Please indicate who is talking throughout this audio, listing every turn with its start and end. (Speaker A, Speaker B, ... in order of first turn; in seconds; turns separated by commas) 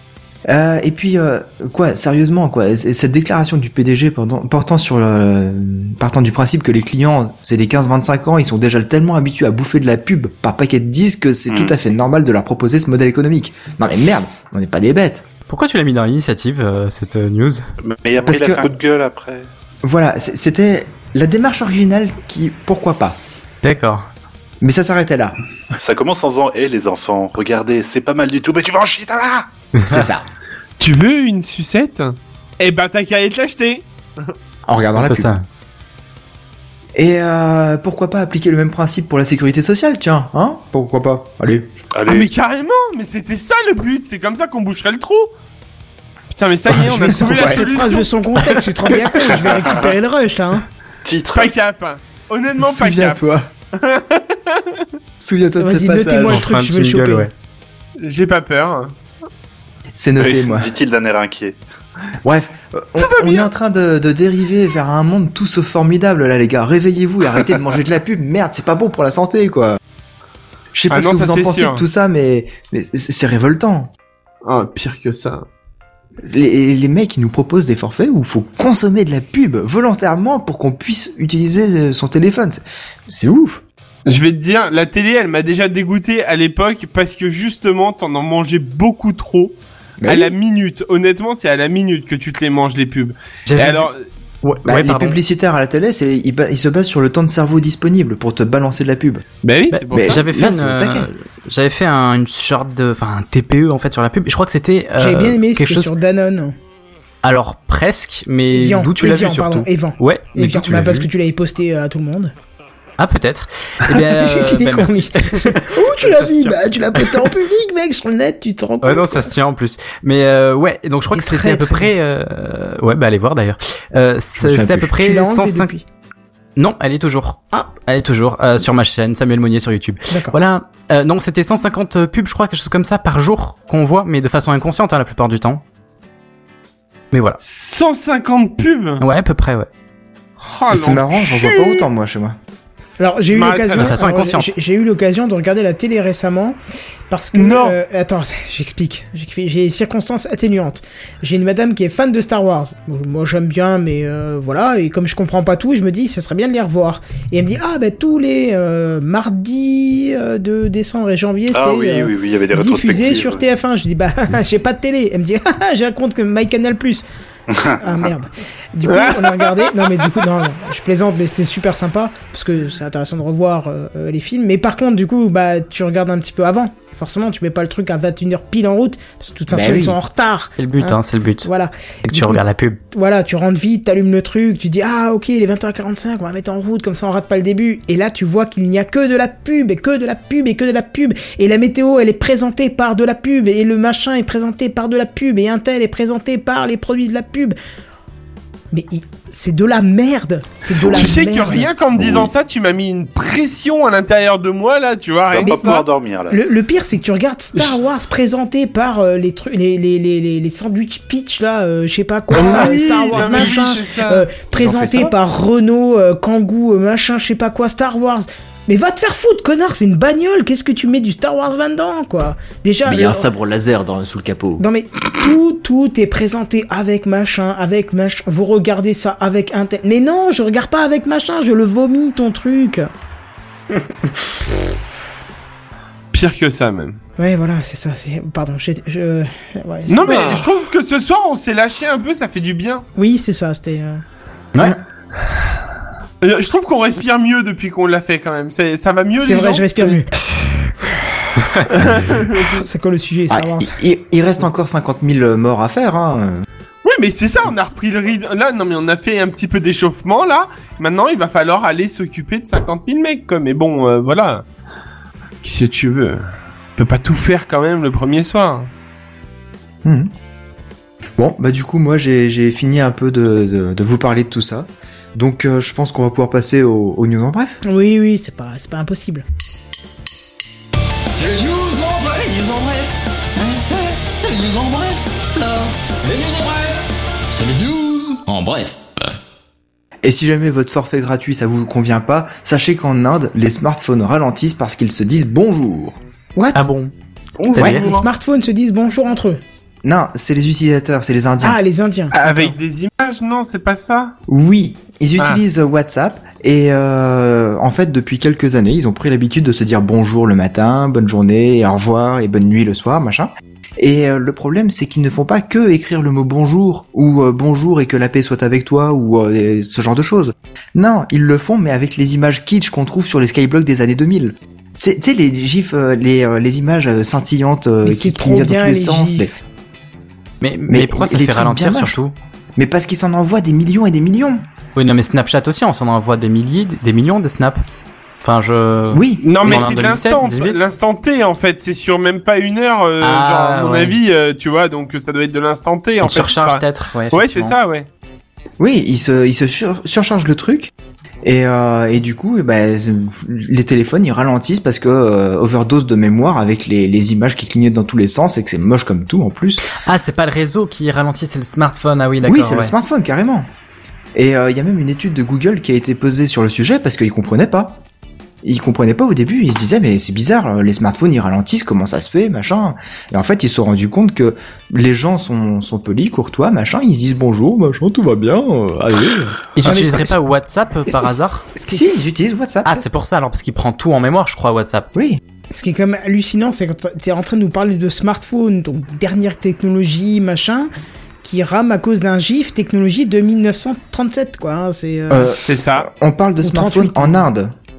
Speaker A: 0.5-15.3, Speaker B: 11.5-11.8, Speaker C: 15.5-17.7, Speaker B: 17.8-19.5, Speaker A: 18.2-18.8, Speaker A: 19.8-23.2, Speaker C: 23.6-24.1, Speaker A: 24.6-25.4, Speaker B: 25.7-29.5, Speaker C: 29.8-30.1, Speaker A: 29.9-30.2, Speaker D: 30.8-34.3, Speaker A: 34.7-35.3, Speaker C: 35.0-35.5, Speaker A: 37.0-41.7, Speaker B: 41.9-42.3, Speaker D: 42.1-45.3, Speaker D: 46.3-48.1, Speaker A: 46.9-47.7, Speaker E: 47.0-50.7, Speaker B: 49.4-49.8, Speaker B: 51.0-51.5, Speaker D: 51.3-54.9, Speaker A: 52.6-53.5, Speaker A: 55.2-56.5, Speaker E: 55.6-57.3, Speaker C: 56.3-57.3, Speaker D: 58.0-58.9, Speaker A: 60.0-60.7, Speaker B: 60.2-61.6, Speaker A: 62.2-69.8, Speaker D: 63.0-63.5, Speaker A: 70.7-73.9, Speaker D: 70.9-71.8, Speaker D: 74.5-75.5, Speaker A: 76.2-83.6, Speaker D: 84.1-94.0, Speaker A: 90.0-90.3, Speaker C: 93.5-93.9, Speaker C: 94.4-95.2, Speaker A: 94.7-99.2, Speaker D: 99.4-100.2, Speaker C: 99.7-105.9, Speaker A: 99.9-101.1, Speaker E: 105.0-106.5, Speaker C: 107.2-111.1, Speaker E: 108.5-112.3, Speaker C: 113.0-117.3, Speaker E: 113.9-119.3, Speaker C: 118.8-125.7, Speaker E: 121.1-121.9, Speaker A: 124.4-125.0, Speaker E: 124.9-125.8, Speaker C: 126.6-135.6, Speaker E: 130.1-130.4, Speaker C: 137.1-137.4, Speaker D: 137.4-139.0, Speaker C: 139.0-139.7, Speaker D: 140.4-141.9, Speaker A: 140.7-142.4, Speaker E: 143.0-146.6, Speaker D: 143.3-144.0, Speaker C: 143.8-144.6, Speaker E: 147.1-167.1, Speaker D: 147.3-147.8, Speaker B: 161.5-163.4, Speaker B: 167.5-167.8, Speaker E: 167.8-197.6, Speaker D: 168.8-170.1, Speaker A: 179.5-180.0, Speaker C: 180.6-181.5, Speaker C: 182.1-182.8, Speaker E: 198.7-201.7, Speaker D: 200.9-205.8, Speaker B: 202.0-202.3, Speaker B: 205.3-206.4, Speaker E: 206.3-223.3, Speaker D: 212.3-214.3, Speaker A: 213.3-213.6, Speaker A: 214.6-215.2, Speaker A: 222.9-224.7, Speaker E: 224.6-232.9, Speaker D: 236.1-237.0, Speaker E: 237.2-240.4, Speaker D: 239.9-242.8, Speaker E: 243.0-244.0, Speaker D: 246.2-250.0, Speaker E: 249.2-250.1, Speaker E: 250.6-251.3, Speaker D: 251.7-252.6, Speaker E: 252.5-253.8, Speaker A: 253.3-256.4, Speaker D: 256.8-264.4, Speaker D: 265.4-266.2, Speaker D: 266.8-268.7, Speaker A: 269.8-270.1, Speaker A: 271.2-277.6, Speaker E: 277.6-279.2, Speaker F: 281.2-282.0, Speaker A: 281.7-283.5, Speaker F: 284.1-284.5, Speaker A: 284.4-285.7, Speaker F: 286.0-286.8, Speaker F: 287.3-289.0, Speaker A: 290.0-296.0, Speaker E: 296.4-296.7, Speaker C: 296.6-296.9, Speaker B: 297.4-298.0, Speaker C: 297.5-297.9, Speaker A: 297.6-297.8, Speaker E: 297.6-299.4, Speaker A: 299.8-301.6, Speaker E: 301.4-302.6, Speaker D: 302.1-304.1, Speaker A: 304.3-329.4, Speaker E: 327.8-329.4, Speaker C: 330.4-332.1, Speaker A: 330.7-332.0, Speaker A: 332.6-334.4, Speaker C: 334.8-337.6, Speaker C: 338.2-340.6, Speaker A: 338.9-339.8, Speaker D: 339.2-347.9, Speaker C: 343.0-344.0, Speaker C: 346.0-347.6, Speaker A: 348.6-350.7, Speaker A: 351.2-359.6, Speaker C: 359.7-362.7, Speaker A: 362.2-363.5, Speaker A: 364.1-367.8, Speaker A: 368.4-379.9, Speaker C: 379.6-381.5, Speaker E: 379.7-380.2, Speaker A: 381.6-382.8, Speaker C: 382.6-384.9, Speaker A: 384.9-385.2, Speaker E: 385.5-390.7, Speaker E: 391.2-395.3, Speaker A: 395.1-397.5, Speaker D: 395.5-395.9, Speaker E: 396.4-397.2